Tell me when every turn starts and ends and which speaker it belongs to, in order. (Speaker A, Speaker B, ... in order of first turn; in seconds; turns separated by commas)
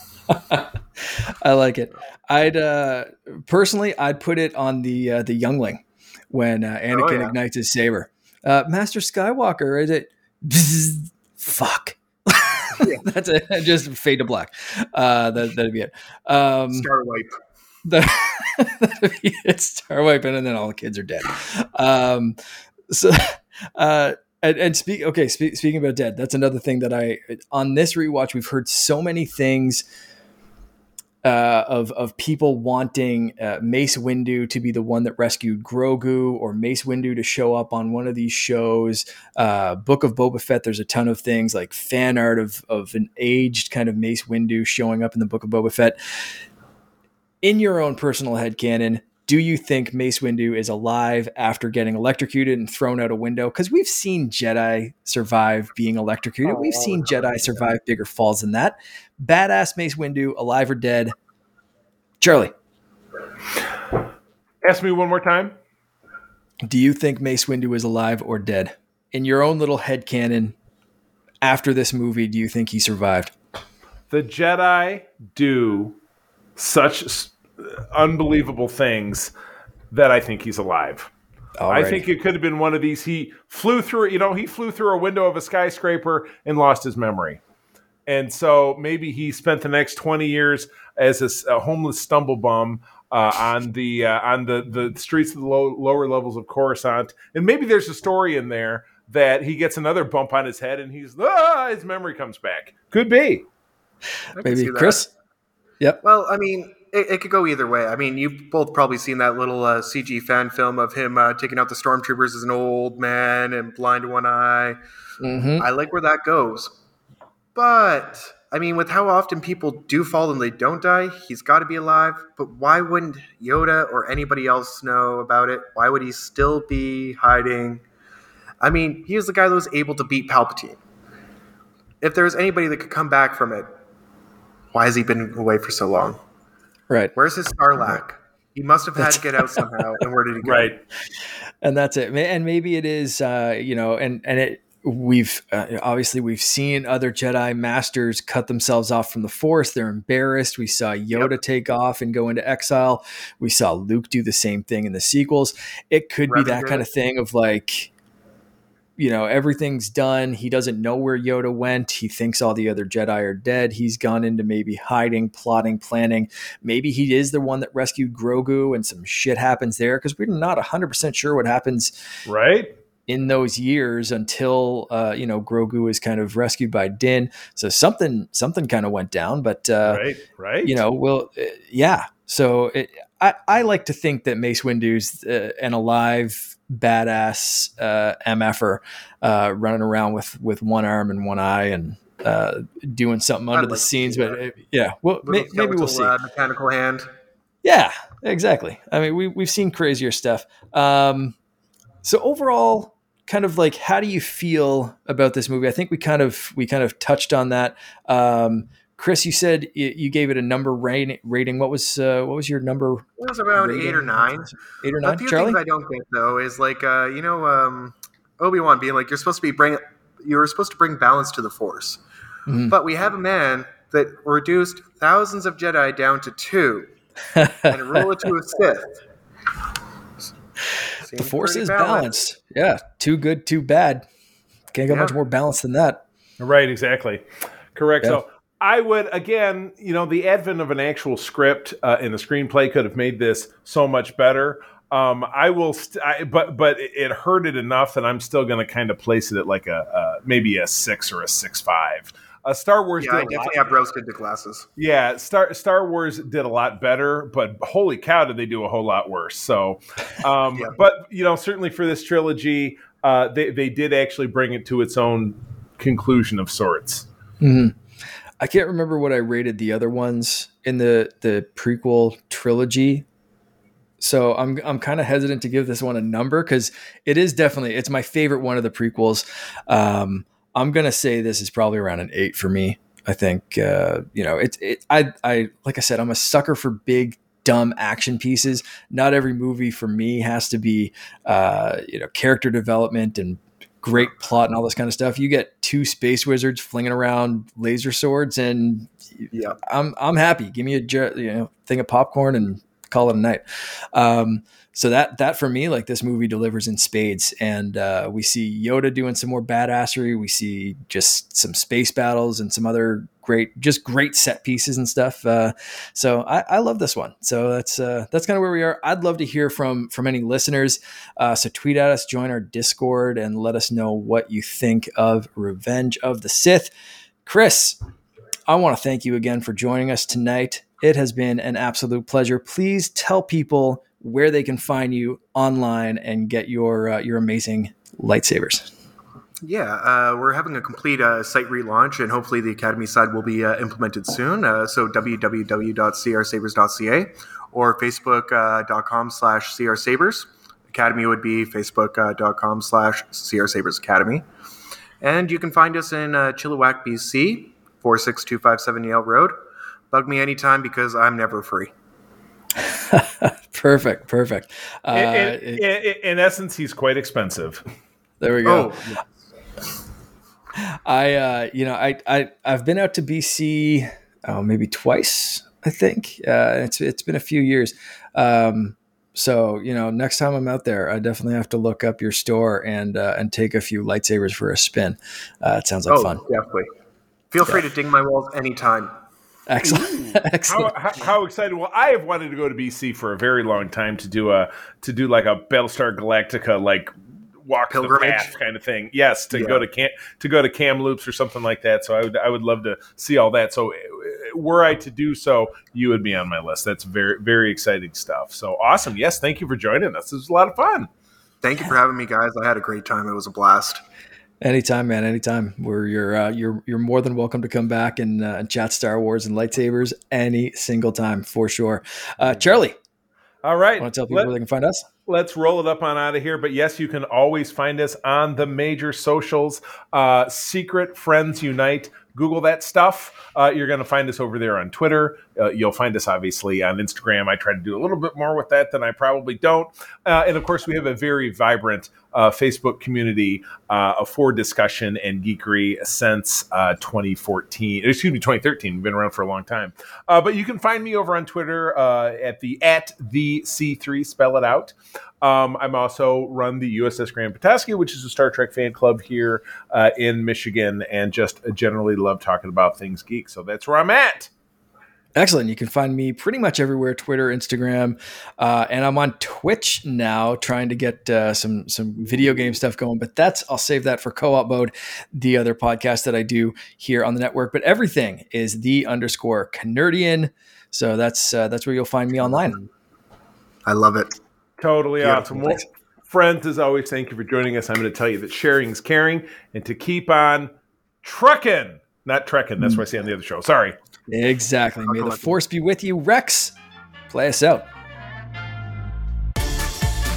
Speaker A: 0.3-16.9, Speaker B: 6.9-7.3, Speaker B: 12.8-13.1, Speaker B: 16.7-17.3, Speaker A: 17.9-22.4, Speaker A: 22.9-29.9, Speaker A: 31.2-46.3, Speaker A: 47.4-61.1, Speaker B: 56.4-57.4, Speaker A: 62.2-62.5, Speaker C: 64.6-65.5, Speaker A: 66.7-70.5, Speaker A: 71.4-73.3, Speaker C: 74.1-76.0, Speaker C: 76.6-79.3, Speaker C: 79.9-81.1, Speaker A: 81.6-82.0, Speaker C: 81.7-87.4, Speaker C: 88.1-103.5, Speaker B: 104.4-105.0, Speaker A: 104.4-105.1, Speaker B: 106.0-114.8, Speaker A: 115.2-115.7, Speaker B: 115.6-116.8, Speaker B: 117.5-127.8, Speaker B: 128.6-130.8, Speaker B: 132.0-133.7, Speaker B: 134.7-136.2, Speaker B: 137.2-140.7, Speaker A: 139.0-139.6, Speaker C: 140.4-140.8, Speaker A: 141.6-157.9, Speaker B: 156.3-156.9, Speaker A: 159.0-171.9, Speaker C: 172.3-172.7, Speaker A: 173.1-180.0, Speaker C: 179.9-180.8, Speaker A: 180.6-196.2, Speaker B: 193.5-194.4, Speaker B: 195.2-197.1, Speaker A: 197.6-201.4, Speaker A: 202.0-215.6, Speaker B: 213.2-214.5, Speaker B: 215.0-222.0, Speaker A: 222.5-222.8, Speaker B: 222.7-226.9, Speaker A: 227.3-228.0, Speaker B: 227.7-229.0, Speaker B: 231.0-232.2, Speaker A: 231.2-234.1, Speaker A: 234.7-236.0, Speaker B: 234.9-235.2, Speaker C: 236.4-237.2, Speaker C: 237.8-253.8, Speaker B: 253.0-254.7, Speaker C: 254.8-267.1, Speaker A: 267.4-267.8, Speaker A: 268.4-273.1, Speaker A: 274.0-326.7, Speaker B: 299.3-299.6, Speaker A: 327.2-327.8, Speaker A: 328.5-338.7, Speaker B: 339.4-354.2, Speaker B: 355.0-359.3, Speaker B: 359.9-361.7, Speaker A: 362.6-365.6, Speaker C: 364.9-367.6, Speaker A: 368.2-368.7, Speaker B: 368.4-369.0, Speaker A: 370.6-386.2, Speaker B: 385.9-386.7, Speaker B: 387.3-388.9, Speaker A: 389.5-390.7, Speaker C: 389.6-410.9, Speaker B: 397.7-398.3, Speaker B: 399.3-399.6, Speaker B: 411.4-413.8, Speaker A: 414.4-422.8, Speaker C: 423.4-424.3, Speaker A: 423.8-424.9, Speaker C: 425.1-464.3, Speaker A: 465.2-482.6, Speaker B: 482.2-482.7, Speaker B: 483.7-484.1, Speaker C: 484.6-490.5, Speaker B: 485.0-485.6, Speaker C: 491.0-493.8, Speaker A: 494.1-496.6, Speaker B: 494.8-495.4, Speaker A: 497.1-497.7